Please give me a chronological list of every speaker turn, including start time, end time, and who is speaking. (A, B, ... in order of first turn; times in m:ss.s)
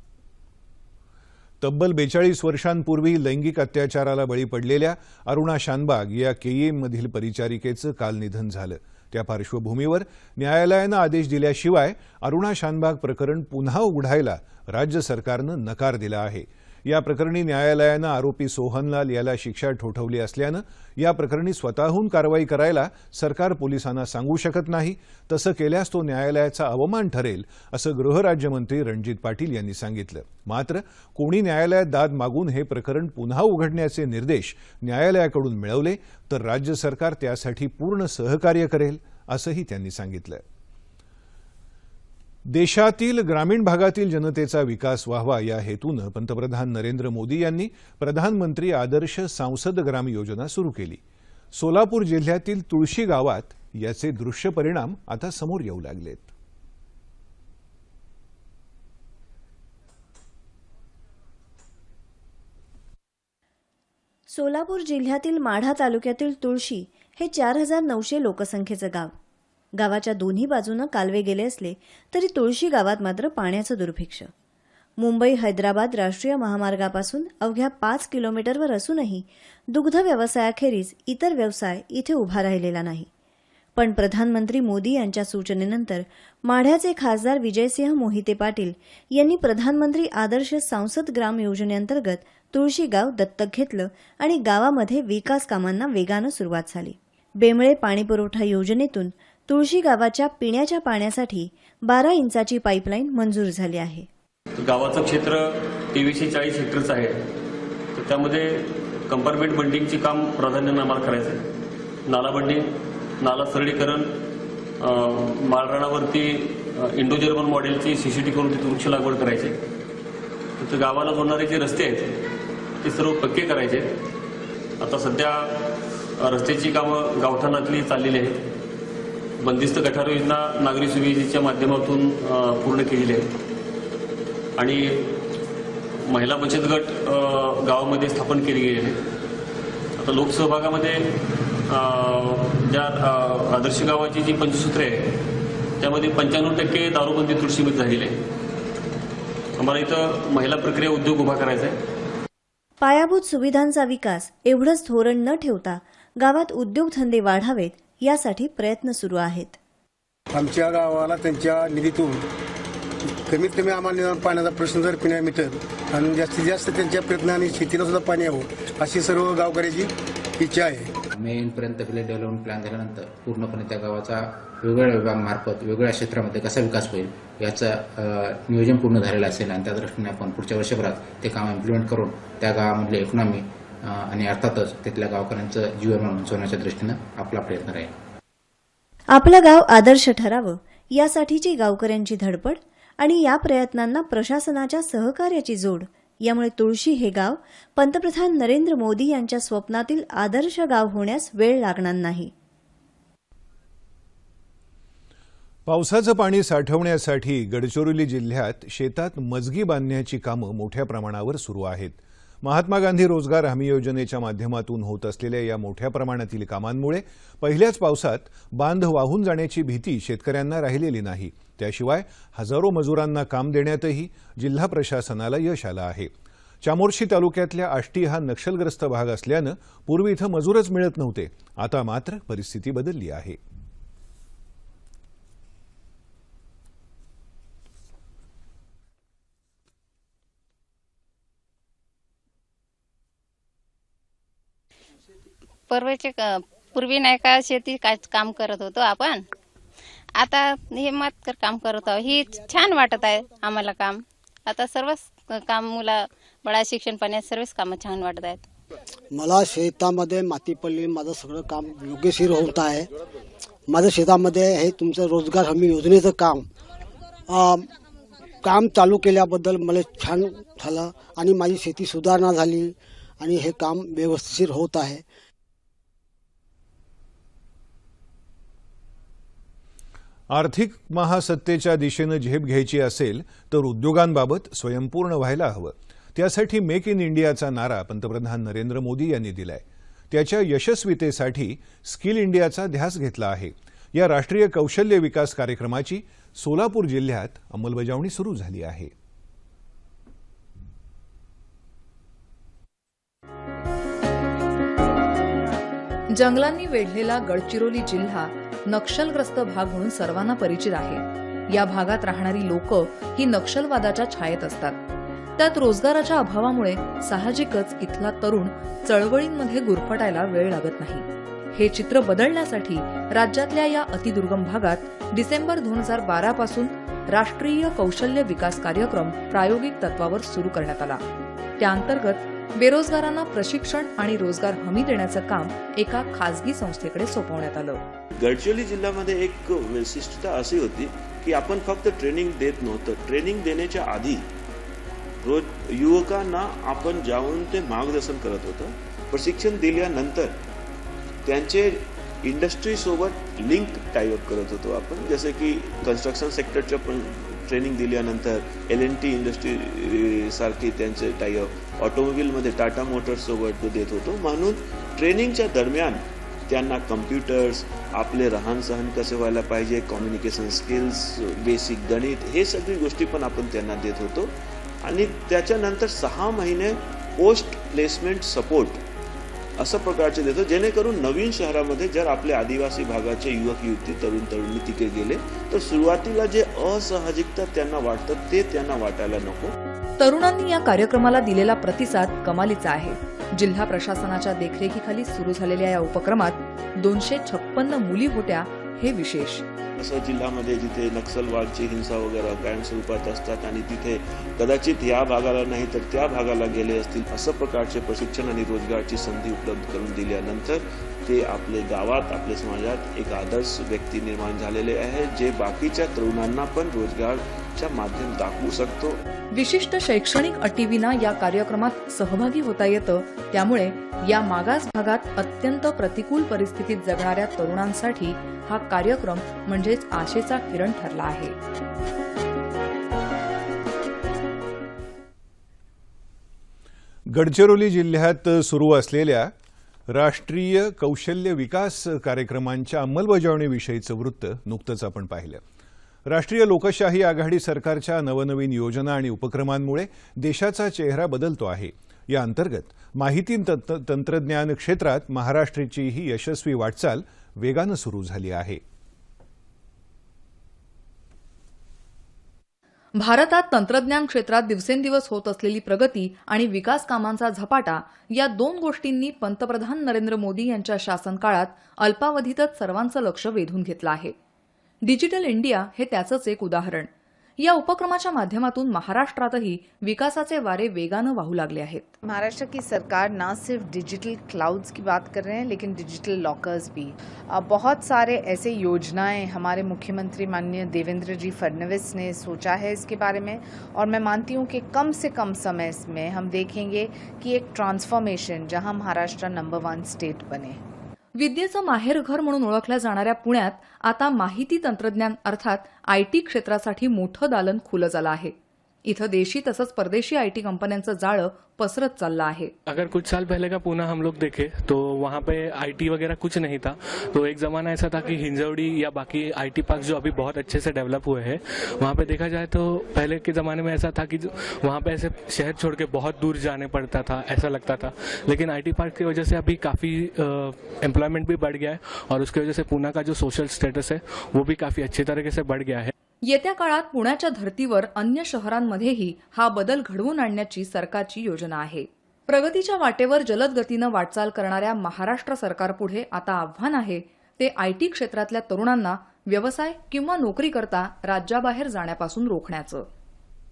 0:01.6-0:40.4 A
0:42.5-0:51.0 A
0:51.6-0:56.3 A
1:04.3-1:09.2 B
1:09.8-1:14.3 B
1:15.0-1:23.1 B
1:23.8-1:44.1 B
1:44.6-1:47.3 C
1:47.9-1:51.5 C
1:52.1-1:54.2 C
1:54.8-1:59.6 C
2:00.6-2:02.3 C
2:02.8-2:04.0 C
2:04.8-2:08.5 C
2:09.4-2:13.3 C
2:14.6-2:15.2 C
2:16.1-2:19.0 C
2:20.0-2:21.1 C
2:21.7-2:25.2 C
2:25.8-2:28.2 C
2:29.6-2:31.8 C
2:32.8-2:39.6 B
2:40.3-2:42.3 D
2:43.3-2:51.0 D
2:51.1-3:07.9 E
3:09.1-3:22.3 B
3:25.7-3:46.1 A
3:46.6-3:53.4 A
4:05.7-4:09.3 F
4:10.2-4:18.4 F
4:19.1-4:22.9 G
4:23.7-4:26.5 G
4:27.3-4:27.7 G
4:28.4-4:35.0 G
4:40.3-4:58.9 A
5:06.1-5:14.8 H
5:15.4-5:31.0 H
5:31.6-5:37.9 H
5:38.2-5:44.3 I
5:45.2-5:50.4 I
5:51.2-6:18.8 I
6:19.6-6:29.5 I
6:30.0-6:39.4 H
6:39.8-6:59.0 I
6:59.3-7:11.4 H
7:17.1-7:19.3 A
7:19.9-7:25.4 A
7:26.1-7:38.6 A
7:43.0-7:54.2 H
7:54.8-8:01.8 H
8:02.0-8:20.6 J
8:21.2-8:32.5 H
8:32.7-8:55.9 K
8:56.2-9:12.9 H